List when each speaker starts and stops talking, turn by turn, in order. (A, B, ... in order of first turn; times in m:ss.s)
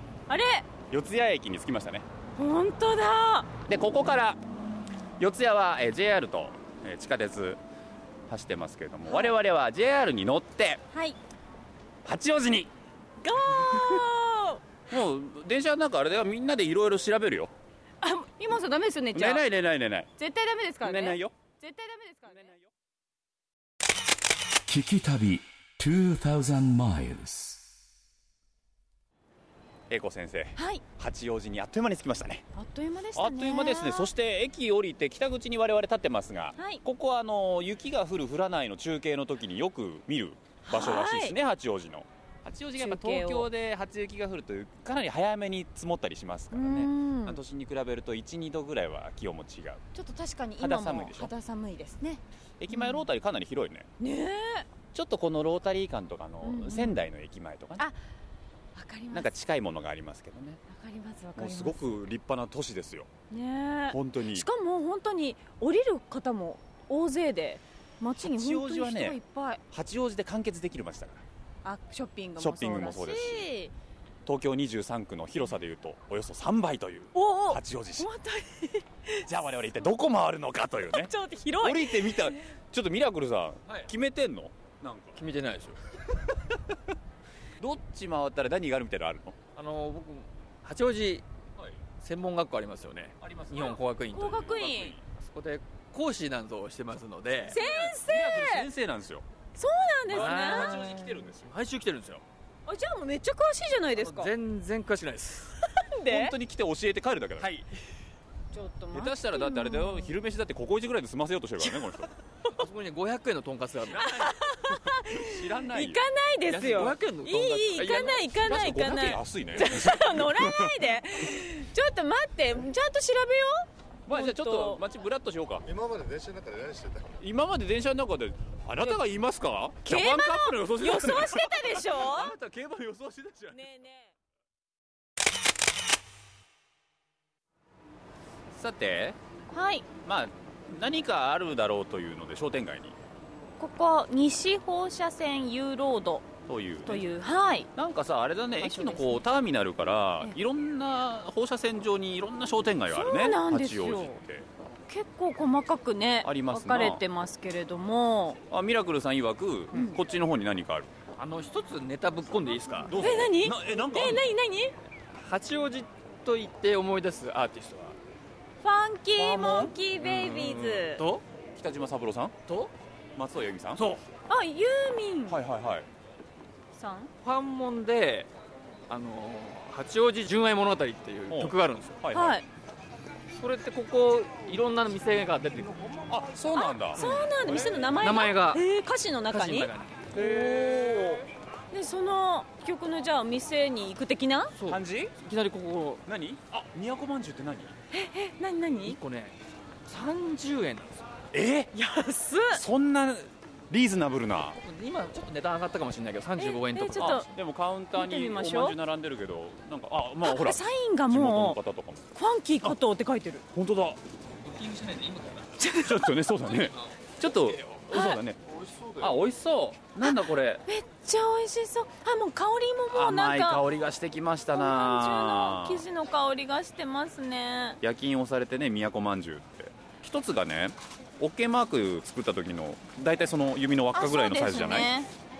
0:00.3-0:00.7 A
0:00.9-0:02.1 B
0:02.4-0:03.5 A
0:03.7-0:04.4 B
0:05.2-0:07.6 B
0:08.3-0:10.8 B
0:09.1-0:09.3 A
0:10.9-0:11.2 A
0:12.0-0:12.7 B
0:13.2-0:14.6 A
0:13.5-0:14.0 B
0:14.9-0:17.5 B
0:18.0-0:19.5 A
0:19.1-0:20.1 B
0:20.2-0:22.5 A
0:20.8-0:21.3 B
0:22.3-0:22.7 B
0:24.6-0:27.6 C
0:29.9-0:32.4 B
0:30.6-0:30.8 A
0:32.5-0:34.1 A
0:33.1-0:49.8 B
0:36.6-0:36.8 A
0:40.6-0:41.4 A
0:42.8-0:43.5 A
0:46.5-0:47.4 A
0:49.9-0:53.0 A
0:50.6-0:51.3 B
0:52.6-0:53.9 B
0:54.0-0:54.7 A
0:54.9-0:57.9 B
0:56.4-0:57.0 A
0:58.7-0:59.3 A
0:59.1-1:00.6 B
1:00.7-1:02.0 A
1:01.4-1:03.1 B
1:03.3-1:09.6 A
1:03.9-1:04.5 B
1:08.2-1:09.2 B
1:09.7-1:11.2 B
1:11.6-1:13.7 A
1:12.4-1:13.5 B
1:14.2-1:18.1 B
1:17.1-1:19.3 A
1:19.2-1:25.2 B
1:20.9-1:22.4 A
1:25.1-1:25.8 D
1:27.6-1:29.4 B
1:29.5-1:31.2 D
1:32.0-1:34.5 D
1:33.2-1:35.0 B
1:34.1-1:34.9 A
1:35.2-1:37.6 D
1:37.5-1:39.2 B
1:37.5-1:38.7 A
1:39.5-1:40.8 A
1:40.1-1:41.5 B
1:40.1-1:42.2 D
1:42.7-1:44.3 A
1:44.0-1:45.5 D
1:45.8-1:46.3 A
1:46.1-1:47.6 B
1:47.4-1:47.7 D
1:48.5-1:50.1 A
1:48.9-1:52.1 B
1:52.6-1:54.3 D
1:53.9-1:54.2 B
1:54.0-2:04.8 A
1:55.0-1:56.0 B
1:56.5-1:58.3 D
1:58.4-2:00.8 B
2:04.1-2:05.6 B
2:05.6-2:07.2 E
2:07.2-2:13.6 B
2:09.8-2:12.3 A
2:13.5-2:14.1 A
2:18.5-2:19.2 B
2:19.5-2:19.9 A
2:20.0-2:23.0 B
2:23.6-2:26.3 A
2:26.4-2:27.0 B
2:26.8-2:27.7 A
2:27.7-2:34.5 B
2:28.6-2:29.2 A
2:32.9-2:34.2 A
2:34.9-2:38.4 A
2:36.2-2:37.0 B
2:38.5-2:40.9 B
2:39.7-2:40.0 A
2:41.2-2:42.9 D
2:42.8-2:44.2 B
2:43.0-2:44.7 A
2:45.2-2:47.9 D
2:48.6-2:51.0 A
2:49.2-2:49.7 D
2:50.0-2:51.0 B
2:51.0-2:51.2 D
2:51.5-2:52.4 B
2:52.5-2:52.7 D
2:53.2-2:53.9 B
2:53.8-2:54.0 D
2:54.3-2:55.4 A
2:55.3-2:55.9 B
2:56.7-2:57.1 A
2:57.2-2:58.3 D
2:58.9-3:02.0 D
3:01.3-3:02.4 B
3:02.1-3:02.4 A
3:03.4-3:06.1 D
3:06.1-3:07.0 B
3:06.5-3:11.2 A
3:07.0-3:08.6 D
3:09.3-3:11.0 D
3:10.4-3:11.1 B
3:11.7-3:14.5 A
3:14.5-3:16.0 D
3:14.6-3:15.2 B
3:16.0-3:17.8 B
3:17.9-3:19.0 A
3:18.8-3:21.0 D
3:21.3-3:21.7 B
3:21.7-3:22.6 A
3:22.5-3:24.6 B
3:24.6-3:27.3 D
3:26.4-3:27.3 A
3:27.0-3:32.1 B
3:27.9-3:28.8 A
3:30.2-3:31.6 A
3:32.1-3:33.4 A
3:33.5-3:34.0 B
3:34.4-3:35.5 D
3:35.6-3:36.1 A
3:35.8-3:38.4 B
3:36.5-3:37.8 D
3:37.9-3:38.2 A
3:38.4-3:39.2 E
3:39.0-3:40.6 B
3:40.0-3:43.6 A
3:42.9-3:45.8 B
3:44.5-3:47.8 A
3:47.8-3:54.9 B
3:53.9-3:55.1 A